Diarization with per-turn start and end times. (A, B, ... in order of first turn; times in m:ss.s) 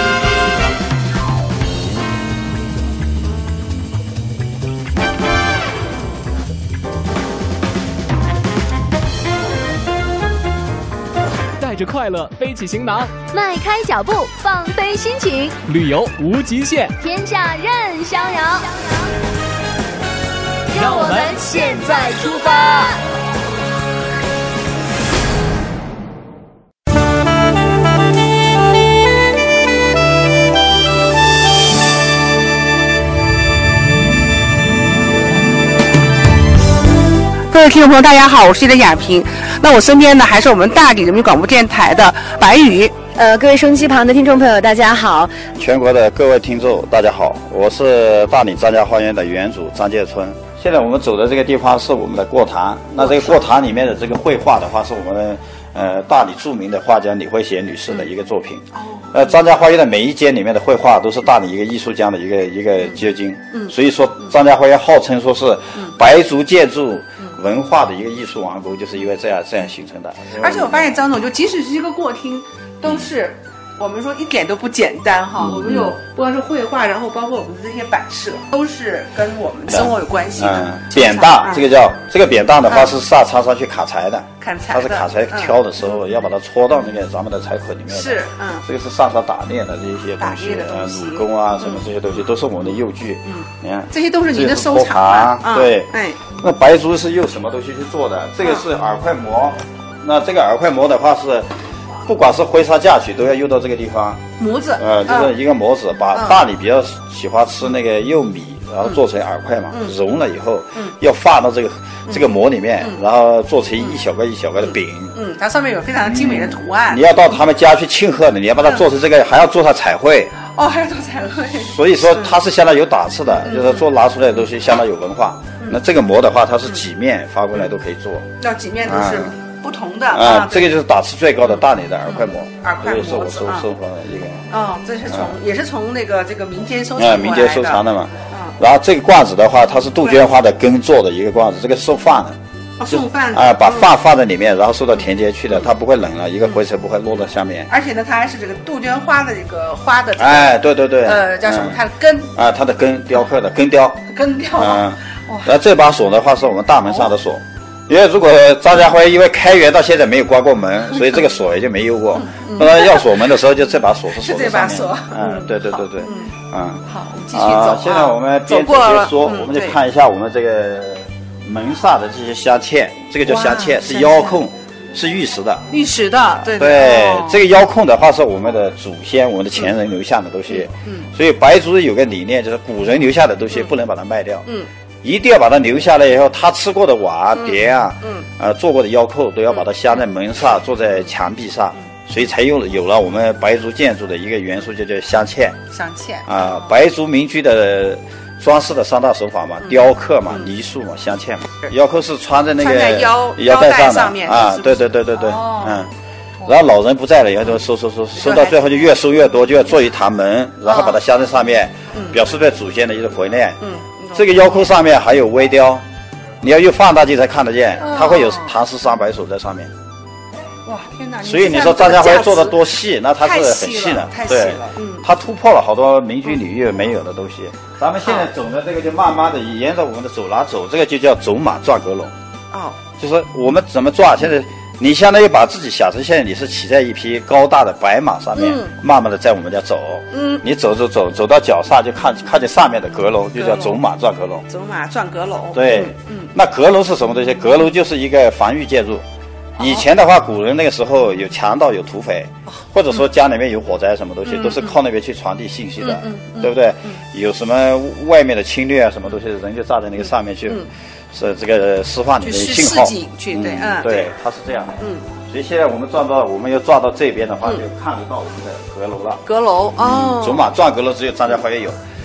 0:11.6-0:13.2 A
0:13.2-0:15.6 B
0:15.6-0:16.9 A
0:16.9-0:19.1 B
0:20.7-0:23.0 B
0:20.8-0:21.6 A
0:37.5-0:43.0 C
0:43.2-0:45.4 D
0:45.6-1:10.9 E
0:53.0-0:53.4 C
0:58.7-0:59.4 C
1:10.4-1:21.7 C
1:15.4-1:15.9 E
1:19.7-1:41.5 E
1:22.6-1:22.9 C
1:24.4-1:25.6 C
1:27.9-1:28.6 C
1:30.2-1:31.8 C
1:33.2-1:36.2 C
1:42.0-1:44.2 E
1:44.4-1:45.4 C
1:44.8-1:55.1 E
1:46.1-1:46.4 C
1:54.6-1:57.0 C
1:56.1-2:00.3 E
2:00.5-2:02.3 C
2:01.6-2:08.2 E
2:03.4-2:03.9 C
2:08.4-2:10.8 C
2:08.8-2:09.3 E
2:10.1-2:14.5 E
2:11.4-2:13.7 C
2:14.5-2:18.6 C
2:17.0-2:27.7 E
2:22.8-2:23.9 C
2:27.7-2:32.3 C
2:30.2-2:31.8 E
2:32.3-2:55.6 E
2:34.1-2:35.5 C
2:42.2-2:43.2 C
2:44.2-2:46.3 C
2:46.9-2:49.8 C
2:53.2-2:54.4 C
2:55.7-2:57.4 C
2:56.4-3:04.5 E
3:00.5-3:01.1 C
3:05.0-3:15.6 E
3:07.4-3:08.3 C
3:15.7-3:16.4 C
3:16.2-3:25.9 E
3:22.6-3:25.8 C
3:26.4-3:33.6 E
3:28.2-3:28.6 C
3:30.6-3:31.0 C
3:31.9-3:32.2 C
3:33.6-3:34.4 C
3:34.1-3:35.8 E
3:36.4-3:39.7 E
3:37.8-3:38.5 C
3:40.6-3:45.0 C
3:41.2-3:52.1 E
3:48.0-3:48.3 C
3:52.5-3:52.8 C
3:53.0-4:04.4 E
3:58.4-3:58.7 C
4:00.1-4:00.4 C
4:03.3-4:03.8 C
4:04.5-4:06.3 C
4:05.5-4:09.0 E
4:09.6-4:29.2 E
4:09.6-4:09.8 C
4:14.2-4:14.7 C
4:15.8-4:16.9 C
4:22.2-4:24.1 C
4:29.2-4:30.4 C
4:29.8-4:31.8 E